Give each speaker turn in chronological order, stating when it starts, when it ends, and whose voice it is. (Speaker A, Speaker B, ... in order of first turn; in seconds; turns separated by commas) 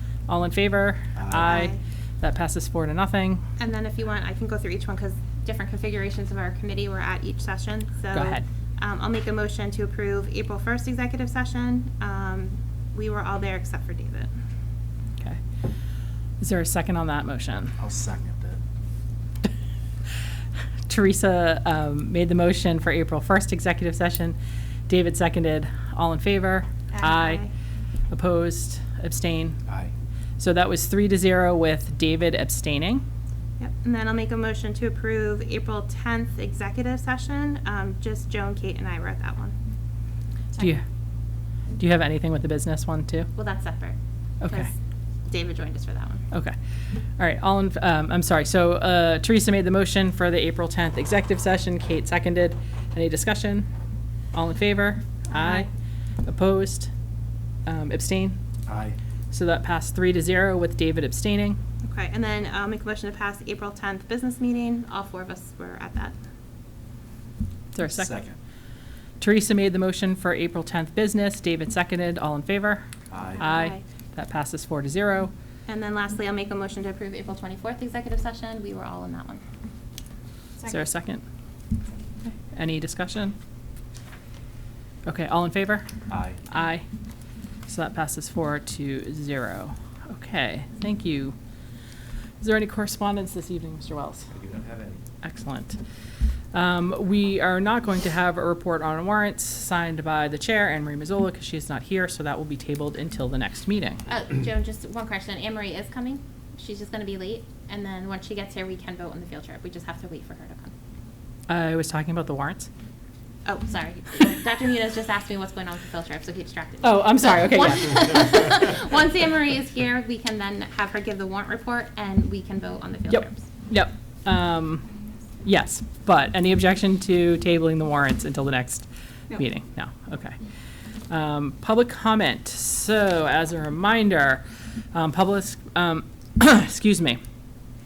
Speaker A: 0.3-3.4, Speaker B: 1.1-1.5, Speaker C: 1.4-1.8, Speaker C: 3.6-14.3, Speaker A: 8.1-8.4, Speaker A: 16.4-17.7, Speaker B: 17.8-18.6, Speaker A: 20.9-24.4, Speaker A: 24.9-27.4, Speaker C: 26.9-27.5, Speaker A: 28.1-29.6, Speaker B: 29.7-29.9, Speaker A: 30.4-33.0, Speaker C: 33.6-39.5, Speaker A: 40.6-40.8, Speaker A: 41.8-43.3, Speaker C: 43.4-44.0, Speaker A: 44.4-44.7, Speaker C: 45.2-46.2, Speaker A: 47.2-53.7, Speaker A: 54.3-55.7, Speaker C: 55.3-55.7, Speaker A: 56.2-56.9, Speaker A: 57.6-58.4, Speaker B: 58.7-59.0, Speaker A: 59.3-61.6, Speaker C: 61.8-66.2, Speaker A: 67.7-68.1, Speaker B: 67.8-68.4, Speaker A: 69.2-72.9, Speaker B: 73.1-73.4, Speaker C: 73.4-73.8, Speaker A: 73.4-75.3, Speaker C: 75.7-79.4, Speaker A: 80.6-81.2, Speaker A: 82.5-83.3, Speaker A: 85.0-85.9, Speaker B: 86.1-86.4, Speaker A: 86.5-86.8, Speaker A: 87.7-91.3, Speaker A: 92.4-94.3, Speaker B: 94.3-95.0, Speaker A: 95.2-95.8, Speaker A: 96.5-104.0, Speaker C: 104.1-110.7, Speaker A: 111.5-112.7, Speaker C: 113.5-123.4, Speaker A: 116.8-118.2, Speaker A: 123.1-124.9, Speaker A: 125.4-130.3, Speaker A: 131.1-137.2